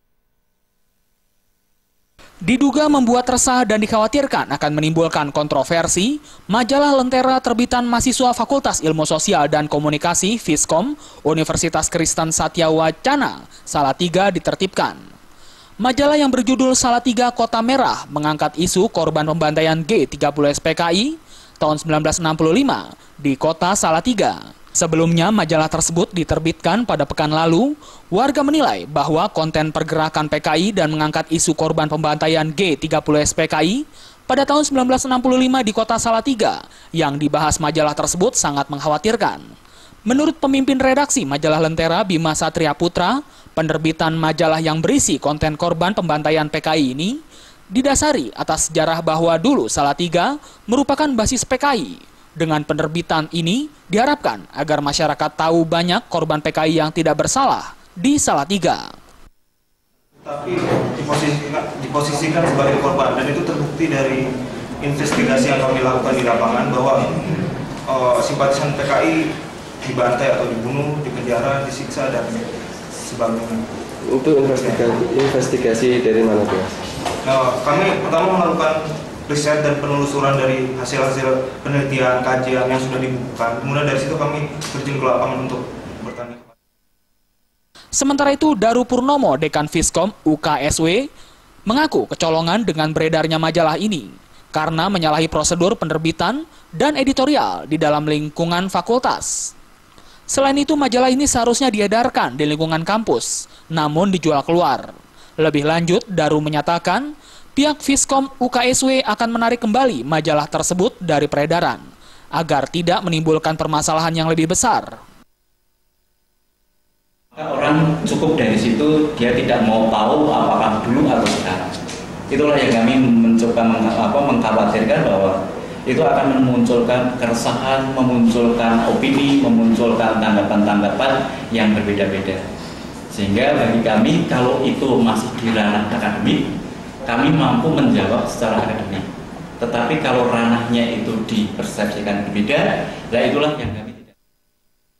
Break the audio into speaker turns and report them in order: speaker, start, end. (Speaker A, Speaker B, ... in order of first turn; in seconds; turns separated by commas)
Speaker A: 2.4-15.0, Speaker A: 15.8-39.5, Speaker A: 40.0-47.2, Speaker A: 47.7-58.9, Speaker B: 60.2-69.3, Speaker B: 69.8-73.6, Speaker C: 74.0-76.8, Speaker B: 74.5-74.8, Speaker B: 77.2-86.5, Speaker A: 87.9-91.1, Speaker A: 91.7-99.5, Speaker A: 100.3-115.0, Speaker D: 117.3-121.7, Speaker D: 122.3-132.4, Speaker D: 133.1-136.5, Speaker D: 137.1-139.1, Speaker D: 139.6-144.1